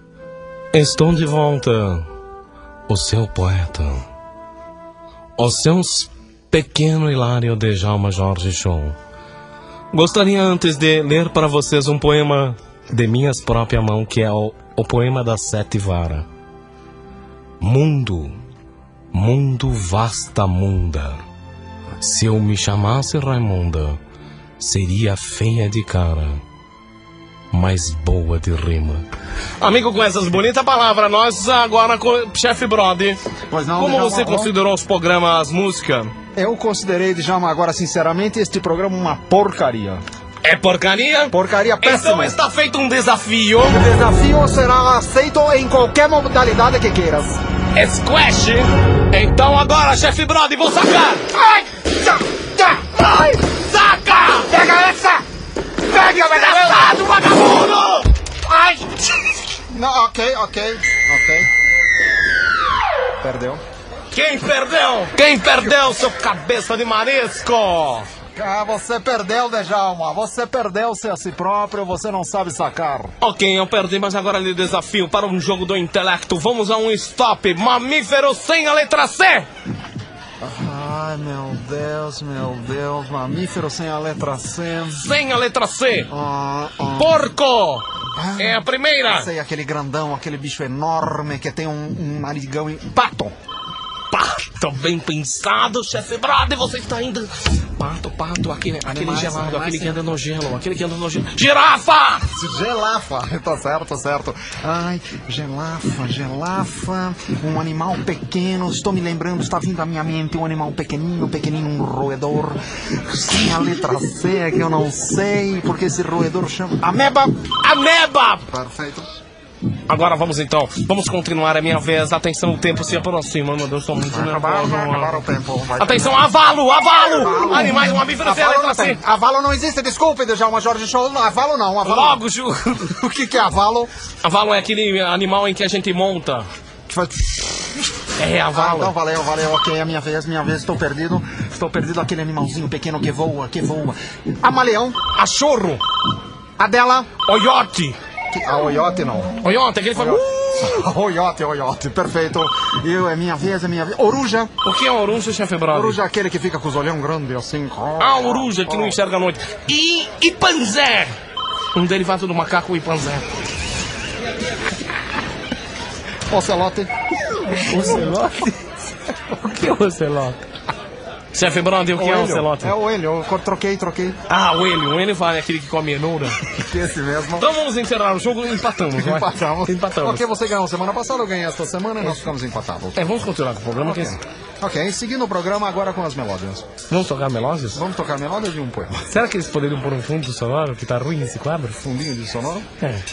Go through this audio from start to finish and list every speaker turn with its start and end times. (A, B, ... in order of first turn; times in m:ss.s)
0:00.7-0:02.0 A
0:02.9-0:04.0 A
0:05.4-0:09.0 A
0:09.9-0:16.3 A
0:17.6-0:18.4 A
0:19.1-0:21.2 A
0:22.0-0:24.0 A
0:24.6-0:26.4 A
0:27.5-0:29.0 A
0:29.6-0:36.1 A
0:33.5-0:34.5 B
0:36.4-0:40.0 B
0:40.4-0:43.8 A
0:41.3-0:42.4 B
0:43.7-0:47.4 B
0:47.7-0:51.3 A
0:51.4-0:51.8 B
0:52.4-0:53.2 B
0:53.4-0:54.5 A
0:54.5-0:55.2 B
0:55.9-0:58.1 A
0:56.0-0:56.8 B
0:58.6-0:58.8 B
0:59.7-1:01.5 B
1:03.2-1:03.6 B
1:04.1-1:08.1 A
1:08.3-1:13.1 B
1:13.2-1:19.5 A
1:20.4-1:25.1 B
1:24.9-1:26.1 A
1:26.1-1:27.2 B
1:27.0-1:27.8 A
1:28.2-1:33.3 B
1:28.4-1:29.3 A
1:34.1-1:42.3 A
1:38.8-1:40.2 B
1:42.3-1:57.3 B
1:57.6-1:58.4 A
1:58.5-1:59.1 B
1:59.9-2:05.2 A
2:04.0-2:06.2 B
2:05.8-2:09.0 A
2:07.0-2:12.2 B
2:11.8-2:13.0 A
2:12.8-2:13.9 B
2:14.2-2:16.5 A
2:16.9-2:25.0 B
2:18.2-2:19.0 A
2:25.1-2:25.8 A
2:26.6-2:27.1 B
2:27.2-2:28.0 A
2:28.3-2:29.4 B
2:29.4-2:30.7 A
2:29.9-2:34.5 B
2:34.6-2:36.0 A
2:35.7-2:39.0 B
2:38.0-2:41.1 A
2:41.7-2:43.2 A
2:46.3-2:46.9 B
2:47.4-2:48.2 B
2:47.6-2:48.6 A
2:49.3-2:50.4 A
2:51.3-2:52.7 A
2:51.9-2:54.2 B
2:54.3-2:56.4 A
2:56.4-2:57.5 B
2:57.4-3:00.3 A
2:58.9-3:03.1 B
3:02.0-3:02.3 A
3:02.9-3:04.2 A
3:03.8-3:06.7 B
3:06.9-3:07.8 A
3:07.7-3:09.0 B
3:09.0-3:11.8 A
3:11.8-3:12.7 B